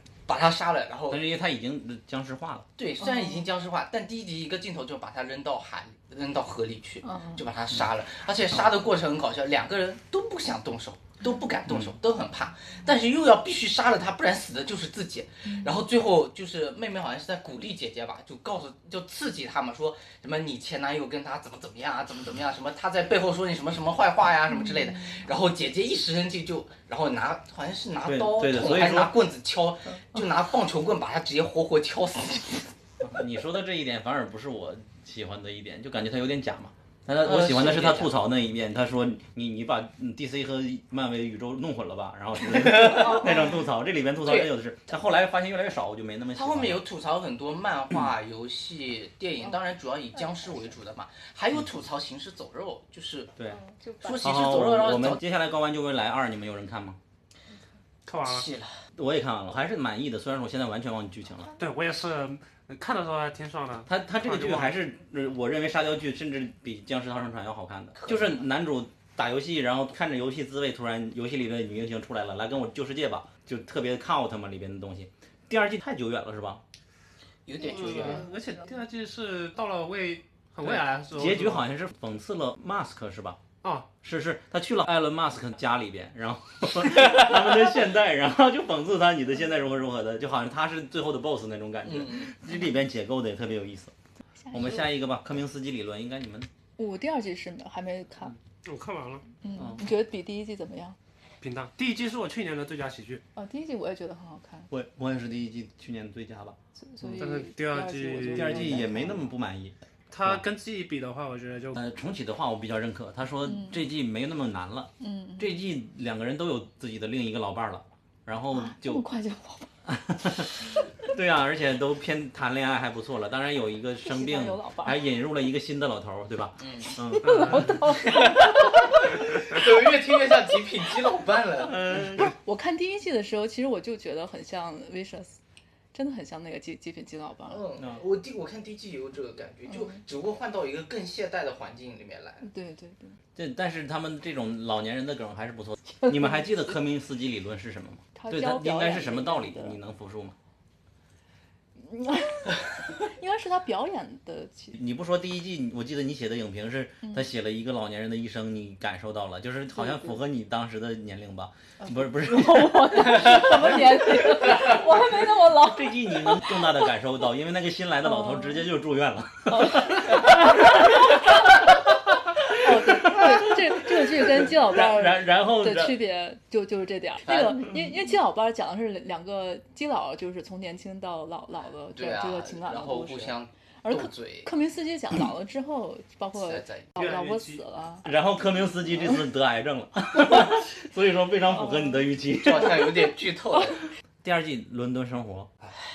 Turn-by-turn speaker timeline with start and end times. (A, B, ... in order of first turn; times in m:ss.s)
0:00.2-0:01.2 A
0:01.1-0:02.7 B
0:02.8-0:32.7 A
0:03.0-0:03.5 C
0:07.0-0:07.4 C
0:11.7-0:12.0 B
0:15.5-0:15.7 C
0:24.5-0:25.3 C
0:28.0-0:29.2 B
0:33.0-0:46.8 B
0:37.2-0:38.1 A
0:42.4-0:43.5 A
0:44.2-0:44.5 A
0:46.3-0:53.3 A
0:50.1-0:50.6 C
0:53.5-0:54.4 C
0:54.0-0:55.2 A
0:54.2-0:57.0 B
0:58.0-0:58.5 D
0:58.2-0:58.8 A
0:58.9-1:01.5 B
1:01.6-1:04.7 D
1:03.8-1:16.6 B
1:08.0-1:08.4 A
1:17.4-1:18.3 A
1:17.6-1:21.6 D
1:18.0-1:18.3 C
1:20.6-1:23.4 B
1:23.6-1:23.9 D
1:24.0-1:33.9 B
1:31.8-1:32.3 A
1:34.4-1:34.9 C
1:34.5-1:36.5 B
1:36.8-1:38.4 C
1:38.6-1:39.2 D
1:39.4-1:41.0 C
1:39.6-1:39.8 B
1:41.4-1:43.2 D
1:43.3-1:44.7 C
1:44.7-1:46.6 B
1:46.8-1:49.3 C
1:47.2-1:48.8 D
1:48.3-1:50.4 B
1:50.1-1:51.8 D
1:51.7-1:59.0 B
1:53.5-1:53.8 C
1:55.0-1:55.5 C
1:58.5-1:59.7 C
1:59.8-2:07.8 B
2:04.0-2:05.0 C
2:06.6-2:06.9 A
2:07.1-2:08.9 C
2:07.2-2:07.8 D
2:07.9-2:12.0 A
2:11.6-2:12.3 B
2:12.2-2:15.4 C
2:15.9-2:17.6 C
2:17.5-2:22.5 A
2:19.7-2:20.0 C
2:22.4-2:23.2 C
2:23.4-2:30.4 B
2:26.0-2:26.4 C
2:28.1-2:29.8 C
2:31.8-2:34.8 C
2:34.7-2:43.7 B
2:39.7-2:40.2 C
2:41.8-2:46.8 C
2:45.5-2:51.5 B
2:48.0-2:48.7 C
2:49.5-2:51.6 C
2:52.4-3:08.0 C
2:52.6-2:56.0 B
2:57.2-2:57.8 A
3:01.9-3:04.5 A
3:06.4-3:06.9 A
3:07.0-3:07.6 D
3:08.0-3:13.0 B
3:11.5-3:12.0 C
3:12.3-3:13.8 A
3:14.2-3:15.5 B